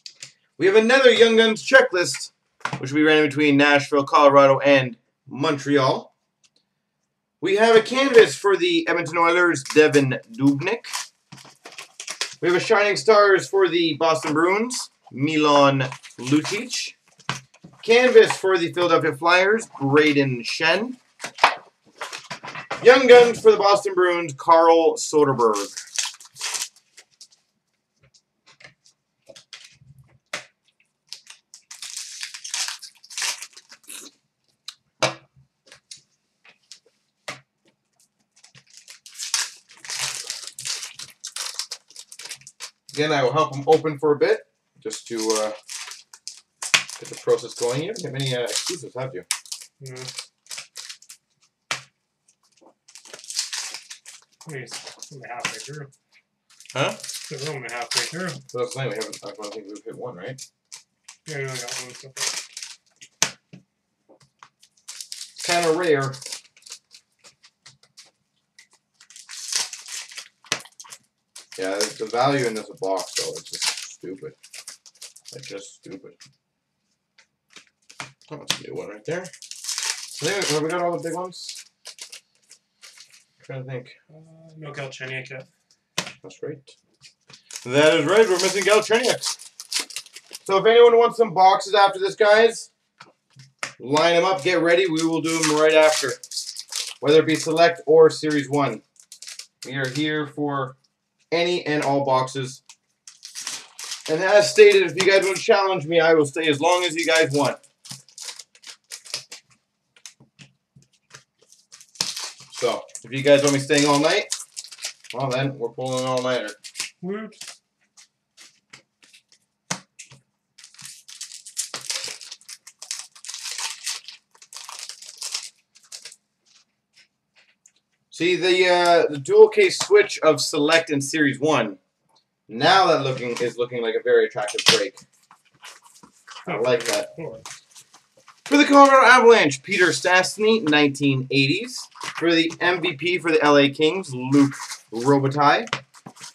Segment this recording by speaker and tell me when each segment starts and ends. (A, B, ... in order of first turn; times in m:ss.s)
0:00.6-0:06.1 A
0:07.4-0:10.9 A
0:12.4-0:17.0 A
0:17.8-0:21.0 A
0:22.8-0:25.7 A
0:42.9-0:45.6 A
0:47.0-0:49.2 A
0:49.8-0:50.1 B
0:54.4-0:55.9 B
0:56.7-0:57.0 A
0:57.1-0:58.4 B
0:58.5-1:00.4 A
1:01.2-1:02.4 B
1:05.4-1:06.2 A
1:11.6-1:14.4 A
1:15.3-1:16.2 A
1:18.3-1:19.3 A
1:20.2-1:21.6 A
1:23.4-1:24.0 A
1:24.1-1:25.5 B
1:26.2-1:26.7 A
1:27.6-1:29.3 A
1:30.4-1:32.7 A
1:33.8-1:36.2 A
1:37.0-1:38.8 A
1:39.6-1:40.8 A
1:41.3-1:42.6 A
1:44.1-1:47.6 A
1:52.5-1:54.3 A
1:55.1-1:56.6 A
1:57.0-1:57.4 B
2:08.1-2:11.8 A
2:12.5-2:15.0 A
2:16.4-2:17.4 B
2:16.4-2:17.1 A
2:18.5-2:25.7 A